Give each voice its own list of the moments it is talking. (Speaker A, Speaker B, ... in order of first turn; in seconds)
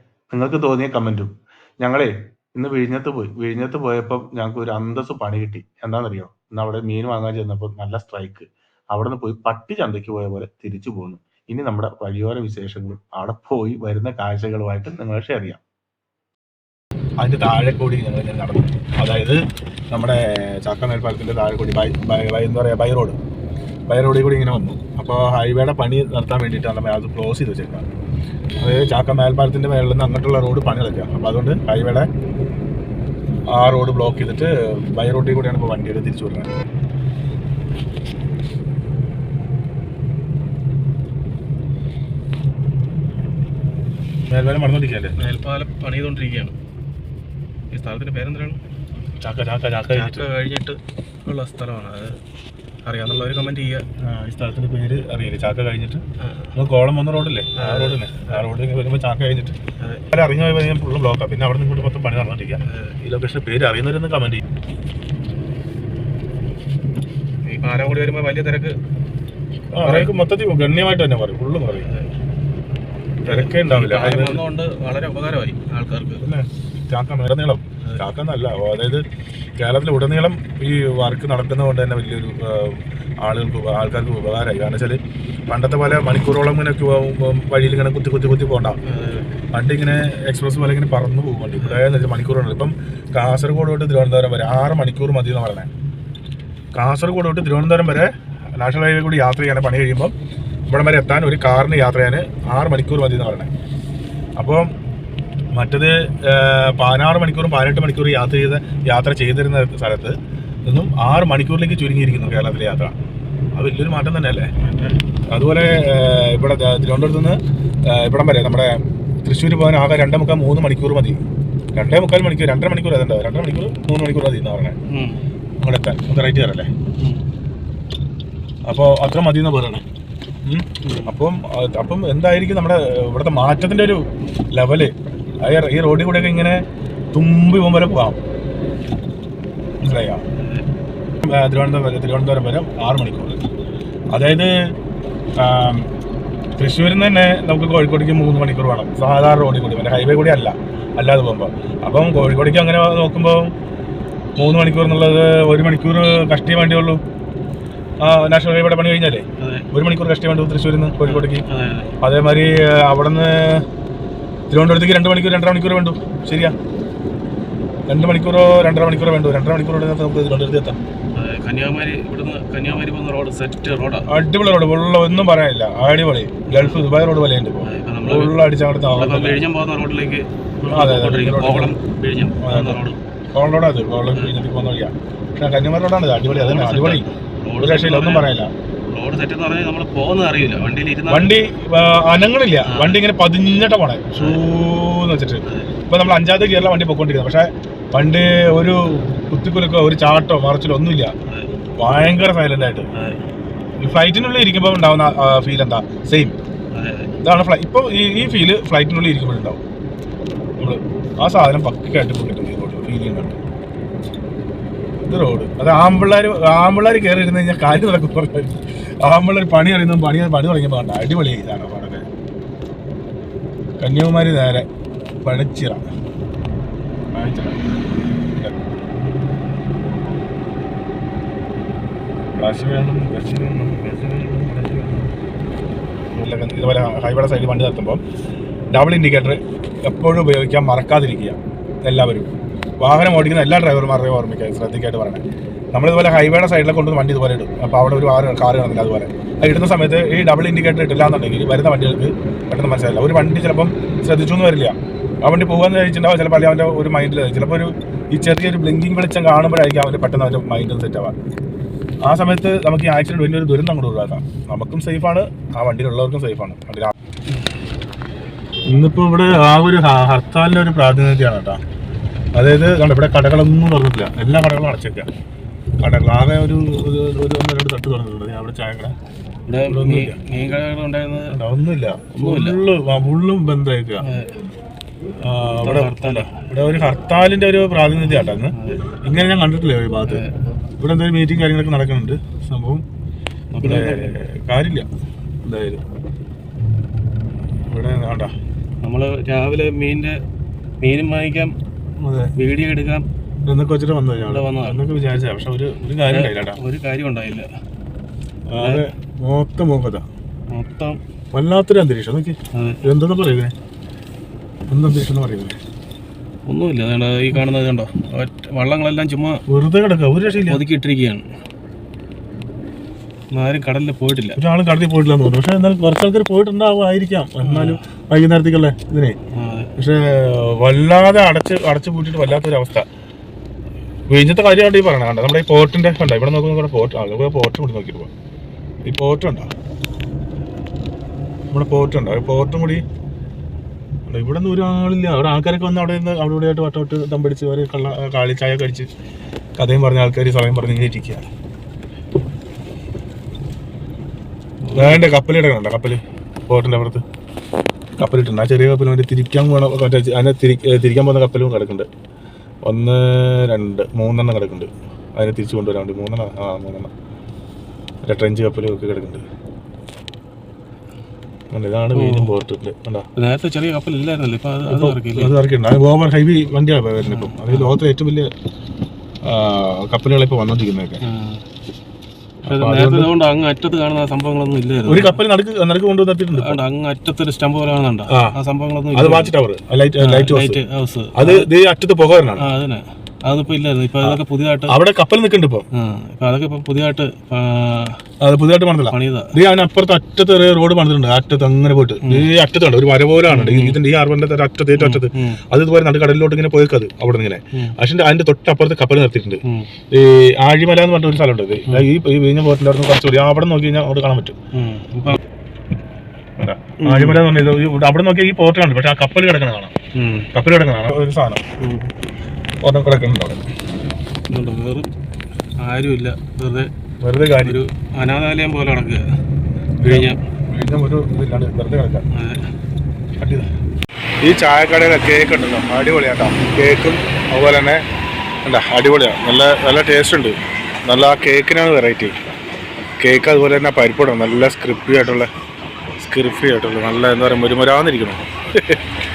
Speaker A: 0.3-15.6, 17.2-19.4, 19.9-23.2, 23.9-27.9, 28.6-32.1, 33.5-36.5, 44.3-45.1, 49.2-50.3, 54.0-56.0, 56.5-59.6, 60.1-64.4, 69.7-71.9, 73.3-74.4, 76.2-79.0, 79.6-88.8, 89.5-95.7, 96.8-100.1, 100.7-103.5, 104.4-104.7, 105.5-110.2, 110.7-113.0, 113.6-114.5, 115.3-121.2, 121.8-124.8, 125.6-126.7, 128.7-129.9, 130.4-136.6, 137.1-138.2, 139.8-140.2, 141.2-143.4, 144.1-144.5, 145.4-145.9, 146.6-153.5, 154.4-157.0, 158.0-161.5, 162.0-163.7, 164.5-166.6, 167.9-170.8, 174.1-179.4, 180.7-181.8, 182.4-187.1, 187.6-188.5, 191.1-201.1, 201.8-202.9, 203.8-206.3, 207.2-209.6, 210.6-213.4, 215.0-222.1, 223.8-224.7, 225.2-225.8, 227.1-227.6, 232.3-235.1, 236.1-238.0, 238.7-245.2, 245.7-261.1, 262.1-266.9, 268.7-271.6, 272.4-275.1, 275.8-278.9, 279.6-280.2, 281.3-284.1, 285.2-290.2, 290.8-292.8, 293.6-294.9, 295.4-295.8, 297.7-298.3, 302.0-302.3, 303.5-306.6, 308.5-310.1, 311.3-313.5, 314.7-315.6, 319.5-320.6, 324.4-329.2, 329.8-332.9, 334.1-338.1, 338.9-339.5, 341.5-342.8, 344.1-348.9, 349.6-351.2, 354.8-357.0, 358.0-361.9, 362.6-366.9, 368.1-369.2, 371.5-373.1, 374.7-378.3, 379.2-381.1, 382.4-383.1, 384.9-386.6, 388.1-388.4, 388.9-390.6, 391.1-392.5, 394.0-395.6, 398.2-414.4, 416.4-419.7, 420.3-421.4, 422.6-423.5, 427.0-427.6, 429.8-432.0, 433.2-433.5, 434.2-437.8, 438.4-440.4, 440.9-442.4, 443.0-445.3, 446.0-448.8
Speaker B: 45.2-46.5, 47.7-48.6, 49.9-52.2, 52.9-53.9, 56.2-56.5, 57.6-58.5, 59.8-60.1, 62.7-63.0, 67.5-68.8, 69.8-70.1, 71.7-72.1, 73.3-76.2, 88.9-89.3, 114.6-115.0, 124.9-125.2, 130.8-131.1, 140.4-140.7, 159.4-159.7, 161.0-161.9, 171.2-174.1, 176.5-176.9, 177.6-178.4, 179.0-183.0, 186.3-188.3, 188.9-191.3, 192.7-193.0, 194.2-194.5, 195.5-195.7, 201.3-201.5, 203.0-203.2, 206.7-207.2, 279.5-281.4, 282.1-282.6, 284.0-284.4, 285.6-286.3, 288.5-289.0, 290.1-290.4, 293.5-294.1, 298.8-300.2, 300.8-301.6, 302.3-303.1, 304.2-304.8, 306.1-307.5, 308.6-308.9, 310.5-311.0, 312.5-312.8, 316.5-319.4, 320.4-321.3, 323.3-324.4, 327.4-327.8, 329.3-329.7, 354.6-355.1, 371.9-372.4, 373.2-375.4, 377.0-377.8, 381.1-381.4, 382.5-385.2, 386.3-389.3, 390.0-391.5, 392.4-394.8, 395.7-398.0, 398.9-399.4, 402.0-402.3, 403.3-403.8, 404.8-405.4, 409.4-409.7, 414.5-415.2, 416.8-417.2, 420.0-420.3, 421.6-421.9, 424.3-424.9, 425.6-426.7, 427.4-429.0, 429.8-430.2, 432.1-432.5